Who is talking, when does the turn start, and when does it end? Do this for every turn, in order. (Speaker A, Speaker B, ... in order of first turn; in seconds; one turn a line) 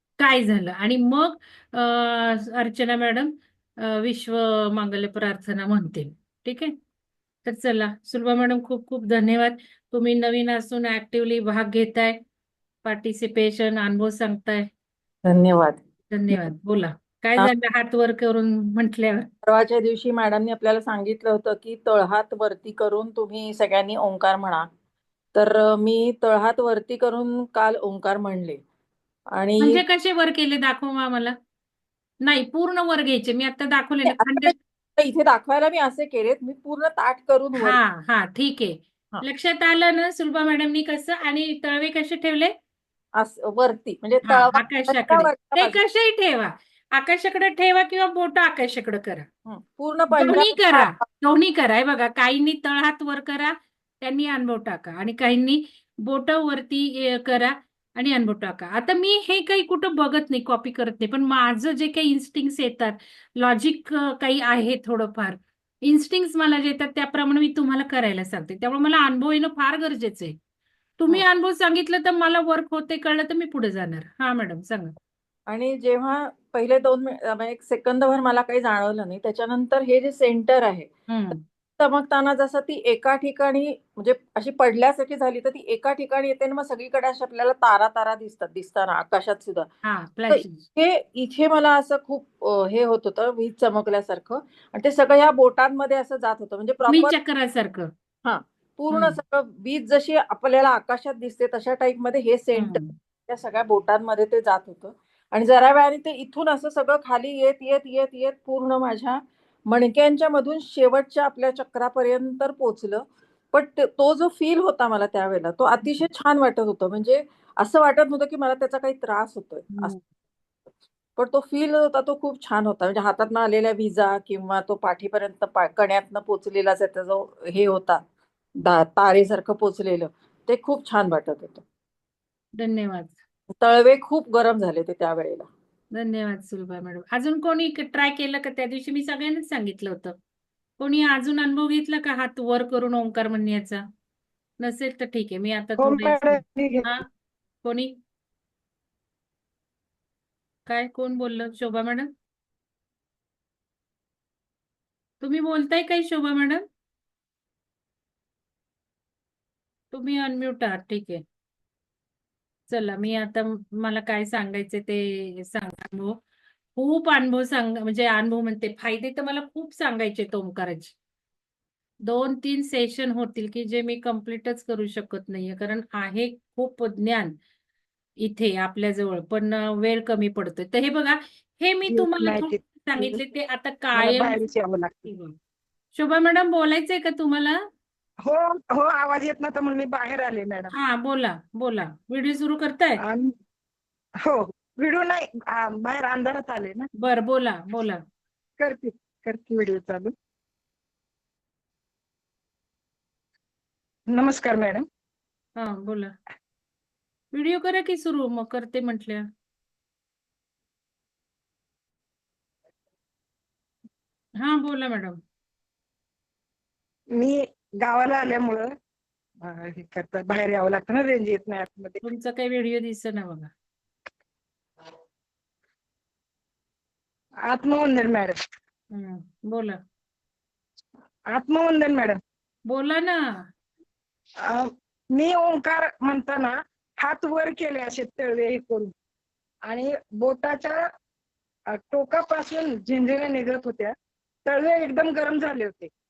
Speaker A: 0.2-6.7
Speaker A: 7.4-12.2
Speaker A: 12.8-14.7
Speaker B: 15.2-16.4
Speaker A: 16.1-19.3
Speaker B: 19.4-24.7
Speaker B: 25.3-28.6
Speaker B: 29.3-29.8
Speaker A: 29.6-31.3
Speaker A: 32.2-34.5
Speaker B: 34.0-37.8
Speaker A: 37.6-42.5
Speaker B: 43.2-45.8
Speaker A: 44.2-49.2
Speaker B: 49.5-51.0
Speaker A: 50.1-70.3
Speaker A: 71.0-74.9
Speaker B: 75.5-80.9
Speaker A: 81.1-81.4
Speaker B: 81.8-89.7
Speaker A: 89.8-90.6
Speaker B: 90.3-97.1
Speaker A: 96.9-97.9
Speaker B: 98.2-119.9
Speaker A: 98.9-99.2
Speaker A: 102.5-102.9
Speaker B: 121.2-128.0
Speaker B: 128.6-131.6
Speaker A: 132.6-133.2
Speaker B: 133.6-135.5
Speaker A: 135.9-140.2
Speaker A: 140.8-143.8
Speaker A: 144.6-147.0
Speaker C: 145.8-146.9
Speaker A: 147.6-147.9
Speaker A: 150.7-152.1
Speaker A: 155.2-156.6
Speaker A: 159.9-161.2
Speaker A: 162.7-166.2
Speaker A: 166.8-170.9
Speaker A: 172.0-177.3
Speaker A: 178.2-184.4
Speaker C: 181.9-183.2
Speaker C: 183.9-185.1
Speaker A: 185.1-185.3
Speaker A: 185.9-187.6
Speaker C: 188.2-190.7
Speaker A: 190.7-193.0
Speaker C: 193.0-193.3
Speaker C: 194.2-196.9
Speaker A: 197.0-198.0
Speaker C: 198.6-200.1
Speaker C: 204.1-204.8
Speaker A: 205.6-206.1
Speaker A: 207.3-209.2
Speaker A: 214.4-215.2
Speaker C: 217.2-218.7
Speaker C: 219.4-222.0
Speaker A: 222.0-223.5
Speaker C: 227.5-228.3
Speaker A: 228.9-229.8
Speaker C: 231.3-232.2
Speaker A: 232.7-233.2
Speaker C: 234.4-238.9
Speaker C: 239.7-240.8
Speaker C: 241.7-243.9
Speaker C: 244.4-245.9